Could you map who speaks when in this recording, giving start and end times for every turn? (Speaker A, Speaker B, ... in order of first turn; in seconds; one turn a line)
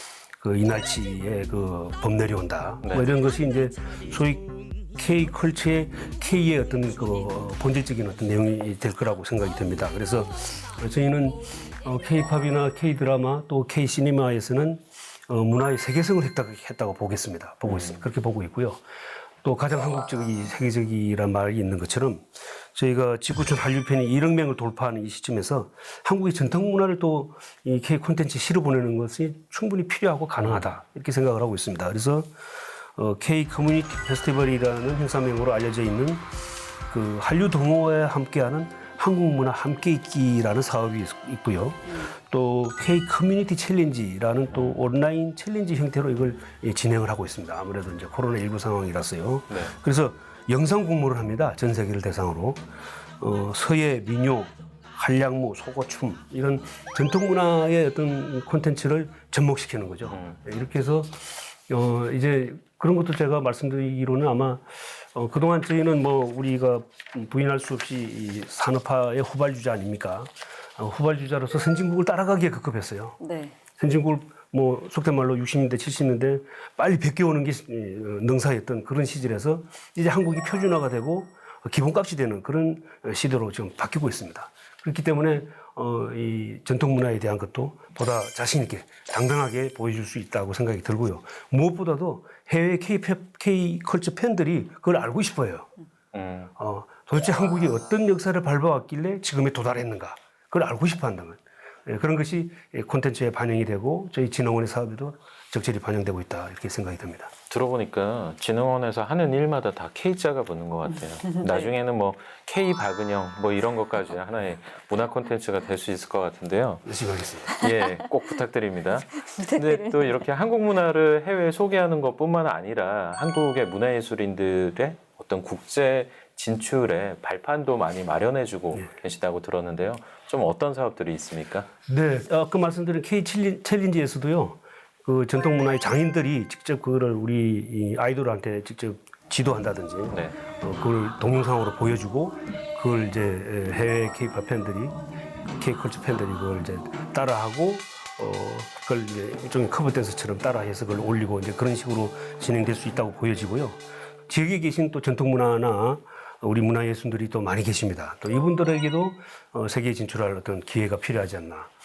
Speaker A: 0.4-18.8
Speaker B: 17.6-18.0
Speaker A: 19.4-32.3
Speaker A: 32.9-36.3
Speaker A: 36.9-52.6
Speaker C: 41.9-42.1
Speaker B: 49.5-49.7
Speaker A: 53.2-73.2
Speaker B: 60.1-60.4
Speaker C: 73.2-73.5
Speaker A: 73.8-95.7
Speaker B: 96.1-96.5
Speaker A: 96.6-107.3
Speaker B: 107.5-116.9
Speaker C: 111.3-111.7
Speaker A: 116.8-117.5
Speaker B: 117.5-131.7
Speaker C: 119.2-120.2
Speaker A: 131.9-161.7
Speaker B: 140.1-140.4